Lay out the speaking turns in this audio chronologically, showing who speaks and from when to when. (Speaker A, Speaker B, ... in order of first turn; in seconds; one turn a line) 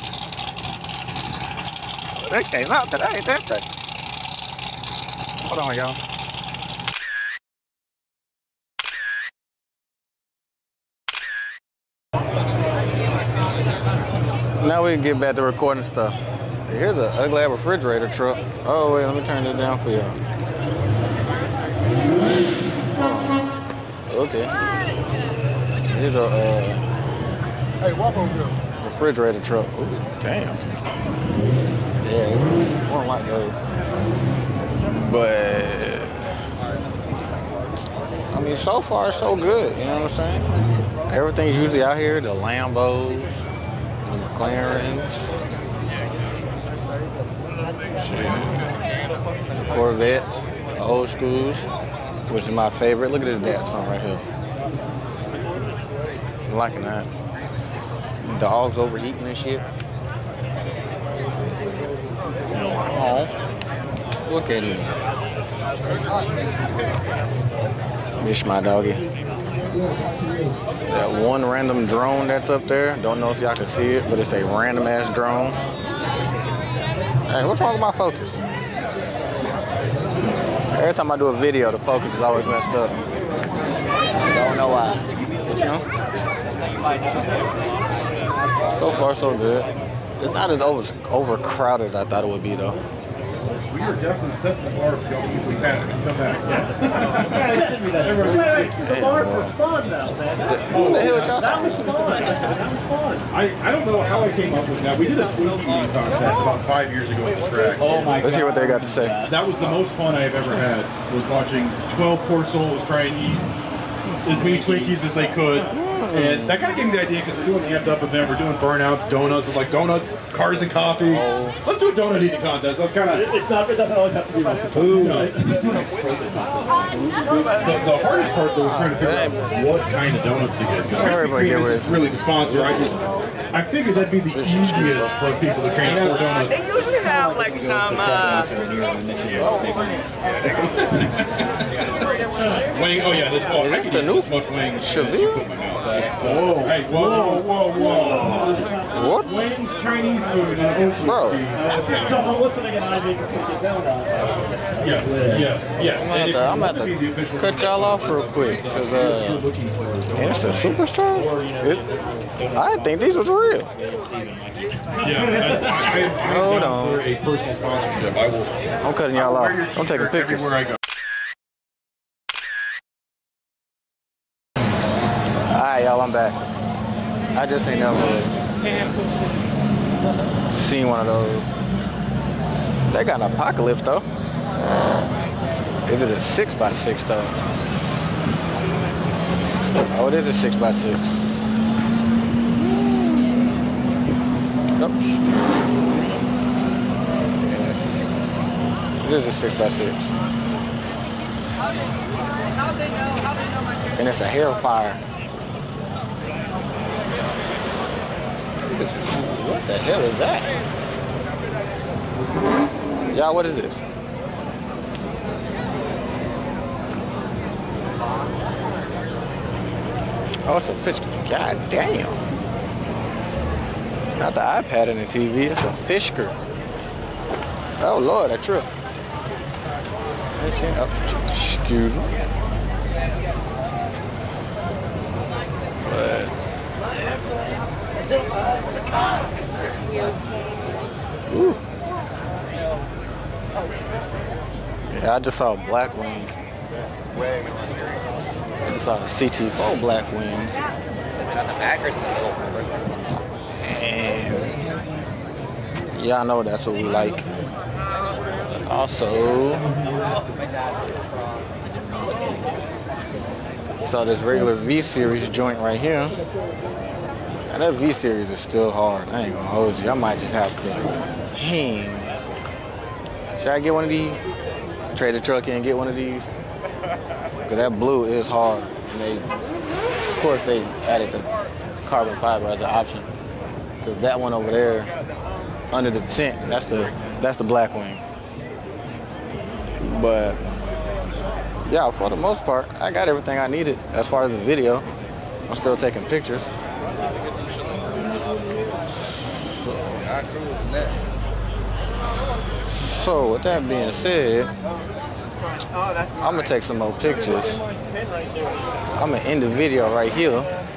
Speaker A: 2.2-3.6
Speaker A: 5.5-6.0
Speaker A: 14.6-20.2
Speaker A: 22.9-23.4
Speaker A: 24.1-24.5
Speaker A: 25.8-26.8
Speaker A: 28.8-30.6
Speaker A: 32.0-33.5
Speaker A: 35.0-36.3
Speaker A: 38.3-40.5
Speaker A: 41.1-43.4
Speaker A: 44.0-45.3
Speaker A: 48.0-48.5
Speaker A: 49.6-51.7
Speaker A: 52.3-54.2
Speaker A: 56.5-57.1
Speaker A: 58.2-59.6
Speaker A: 62.5-63.3
Speaker A: 64.2-64.9
Speaker A: 68.2-69.0
Speaker A: 70.9-75.6
Speaker A: 77.3-78.4
Speaker A: 80.7-82.9
Speaker A: 84.3-85.8
Speaker A: 88.7-89.7
Speaker A: 90.2-92.8
Speaker B: 93.7-98.7
Speaker C: 97.0-103.3
Speaker A: 98.8-99.6
Speaker A: 100.4-102.1
Speaker B: 100.7-101.3
Speaker B: 103.3-108.3
Speaker D: 107.8-109.4
Speaker A: 108.2-109.2
Speaker B: 109.2-113.5
Speaker A: 114.1-116.6
Speaker B: 114.2-123.3
Speaker A: 121.0-121.6
Speaker C: 123.2-125.8
Speaker B: 124.7-136.7
Speaker D: 124.7-125.2
Speaker A: 128.6-129.4
Speaker A: 130.9-131.9
Speaker A: 134.3-135.1
Speaker D: 135.8-142.0
Speaker B: 140.4-141.6
Speaker B: 142.7-148.6
Speaker A: 143.5-145.4
Speaker C: 146.3-148.8
Speaker A: 148.9-149.3
Speaker B: 149.2-152.3
Speaker A: 151.0-151.4
Speaker C: 151.6-155.7
Speaker B: 154.8-160.8
Speaker A: 156.0-159.4
Speaker A: 160.2-161.8
Speaker D: 161.1-164.9
Speaker A: 162.5-163.7
Speaker B: 165.0-168.5
Speaker C: 165.1-165.9
Speaker A: 166.1-167.0
Speaker A: 168.8-170.5
Speaker B: 169.1-170.8
Speaker A: 175.5-176.4
Speaker A: 177.3-178.3
Speaker A: 180.5-181.5
Speaker A: 182.9-184.0
Speaker A: 185.8-187.4
Speaker A: 189.9-191.2
Speaker A: 192.6-193.6
Speaker A: 194.8-195.2
Speaker A: 197.4-197.8
Speaker A: 199.0-200.1
Speaker A: 204.0-205.0
Speaker A: 208.8-210.5
Speaker A: 213.1-213.8
Speaker A: 220.4-222.2
Speaker A: 224.2-226.3
Speaker A: 227.8-228.7
Speaker A: 230.4-232.2
Speaker A: 235.8-236.3
Speaker A: 241.3-241.6
Speaker A: 244.9-246.3
Speaker A: 248.6-250.5
Speaker A: 253.6-254.6
Speaker A: 255.9-257.2
Speaker A: 258.5-259.7
Speaker A: 263.8-266.2
Speaker A: 267.5-272.1
Speaker A: 273.4-274.2
Speaker A: 274.9-276.3
Speaker A: 277.5-279.3
Speaker A: 280.1-281.3
Speaker A: 281.8-283.1
Speaker A: 283.8-284.9
Speaker A: 285.7-288.0
Speaker A: 289.8-290.4
Speaker A: 291.6-294.9
Speaker A: 295.5-296.5
Speaker A: 299.3-300.2
Speaker A: 302.7-304.5
Speaker A: 306.2-307.6
Speaker A: 309.0-310.5